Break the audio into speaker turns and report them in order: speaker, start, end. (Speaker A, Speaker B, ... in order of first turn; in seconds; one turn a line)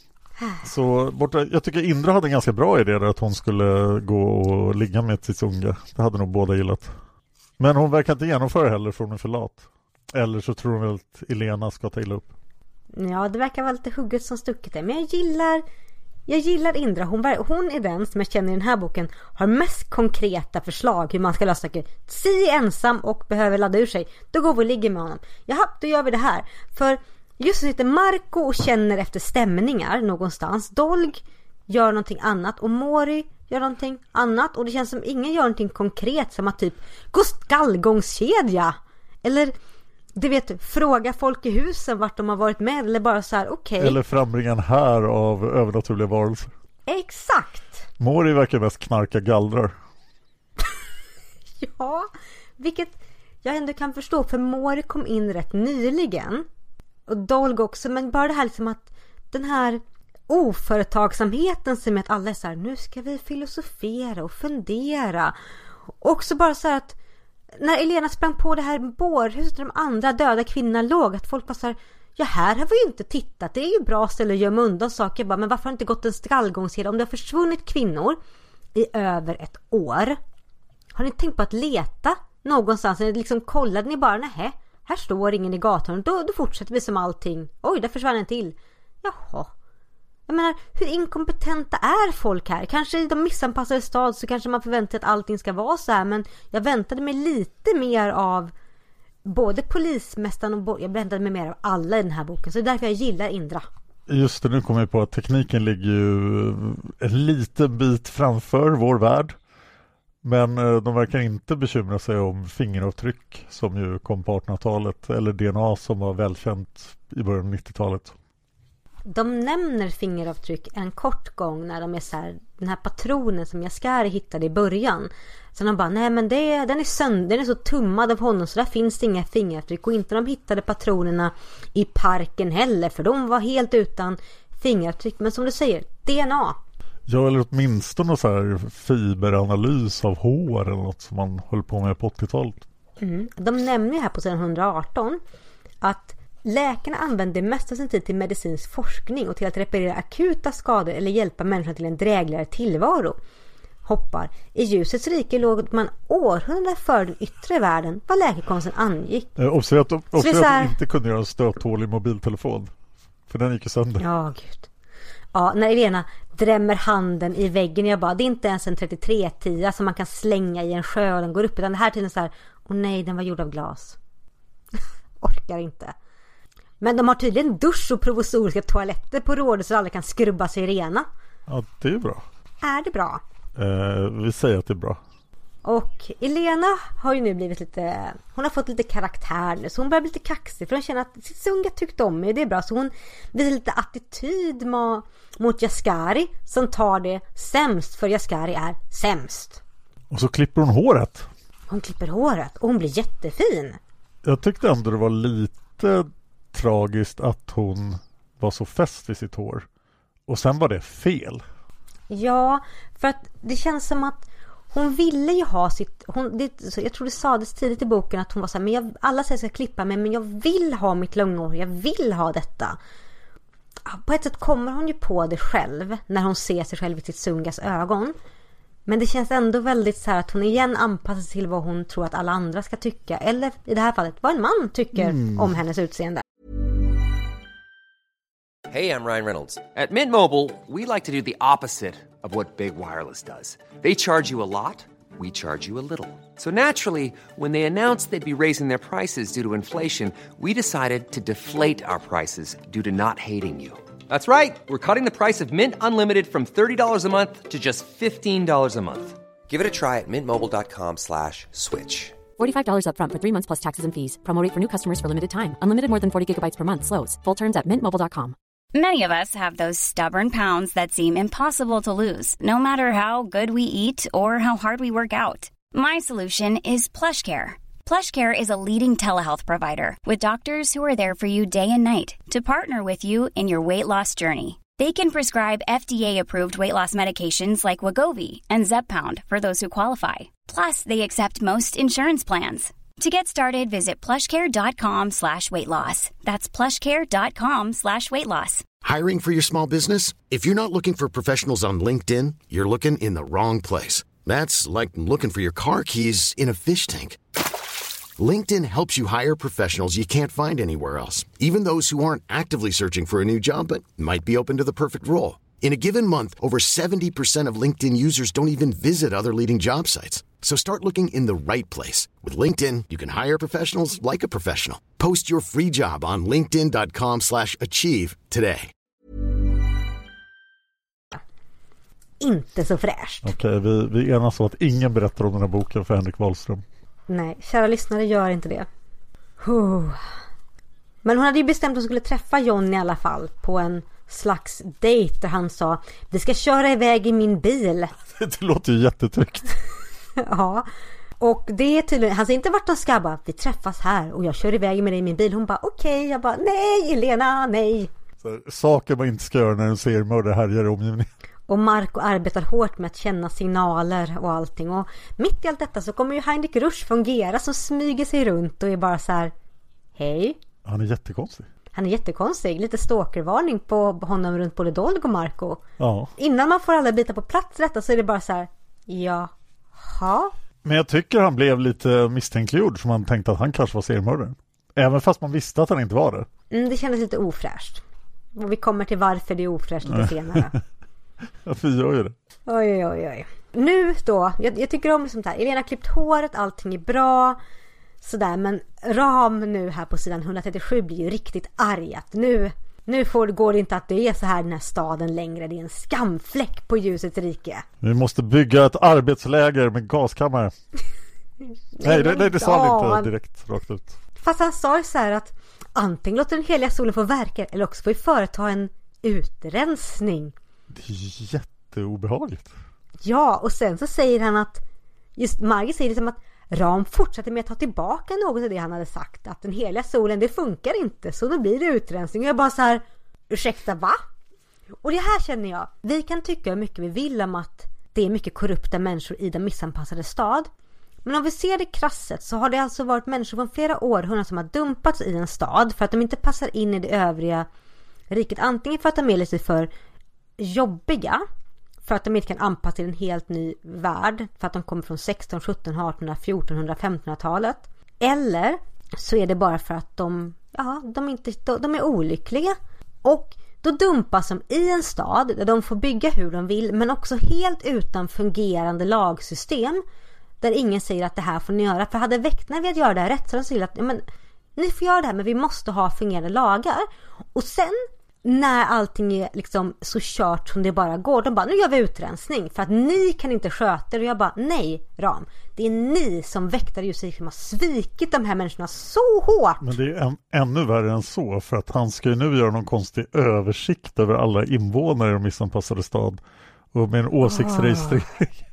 Speaker A: 0.6-6.9
Speaker A: 7.6-12.3
Speaker B: 12.9-15.6
Speaker B: 16.3-39.5
Speaker B: 40.1-44.0
Speaker A: 43.8-46.5
Speaker B: 46.9-47.9
Speaker A: 48.0-49.7
Speaker B: 51.6-52.1
Speaker B: 52.6-56.5
Speaker B: 57.1-65.3
Speaker B: 66.0-67.0
Speaker B: 67.6-78.2
Speaker B: 78.7-80.2
Speaker B: 80.9-89.5
Speaker B: 90.3-98.5
Speaker B: 99.2-103.7
Speaker A: 104.1-109.3
Speaker A: 110.2-118.1
Speaker B: 119.0-136.6
Speaker A: 137.1-142.6
Speaker B: 143.0-145.2
Speaker B: 145.8-153.2
Speaker B: 153.8-159.3
Speaker A: 159.4-162.7
Speaker B: 160.1-160.7
Speaker A: 163.3-164.0
Speaker B: 164.0-164.7
Speaker B: 165.3-174.0
Speaker B: 175.2-175.9
Speaker B: 176.8-181.1
Speaker A: 181.5-182.2
Speaker B: 182.6-183.2
Speaker A: 183.6-185.0
Speaker B: 185.6-199.6
Speaker A: 200.1-201.3
Speaker B: 201.7-203.8
Speaker A: 204.2-209.7
Speaker A: 210.3-211.4
Speaker B: 212.1-222.8
Speaker B: 223.8-228.2
Speaker B: 228.9-236.2
Speaker A: 235.0-235.5
Speaker C: 238.7-262.2
Speaker D: 262.4-268.3
Speaker E: 268.7-298.6
Speaker F: 298.8-307.2
Speaker F: 308.2-328.7
Speaker B: 332.2-333.3
Speaker A: 333.2-336.6
Speaker B: 337.1-338.7
Speaker B: 339.4-340.1
Speaker B: 341.0-347.9
Speaker A: 348.1-349.5
Speaker B: 350.2-350.7
Speaker B: 351.2-357.9
Speaker A: 358.2-361.1
Speaker B: 361.5-369.3
Speaker B: 369.9-370.4
Speaker A: 370.6-371.5
Speaker B: 371.7-375.6
Speaker A: 375.8-376.1
Speaker B: 376.2-380.3
Speaker A: 380.6-386.3
Speaker B: 386.5-387.8
Speaker B: 388.3-390.6
Speaker A: 389.9-390.6
Speaker A: 391.4-392.1
Speaker B: 392.5-397.4
Speaker B: 398.0-407.6
Speaker A: 407.8-410.5
Speaker B: 411.8-413.1
Speaker A: 411.8-414.0
Speaker B: 414.2-420.3
Speaker A: 420.7-422.5
Speaker B: 423.0-424.6
Speaker B: 425.2-434.0
Speaker B: 434.8-440.5
Speaker B: 441.0-447.5
Speaker B: 448.1-449.7
Speaker B: 450.4-451.2
Speaker B: 451.8-469.8
Speaker B: 470.4-474.0
Speaker B: 474.6-489.6
Speaker A: 489.6-496.2
Speaker A: 496.7-498.4
Speaker B: 497.2-498.0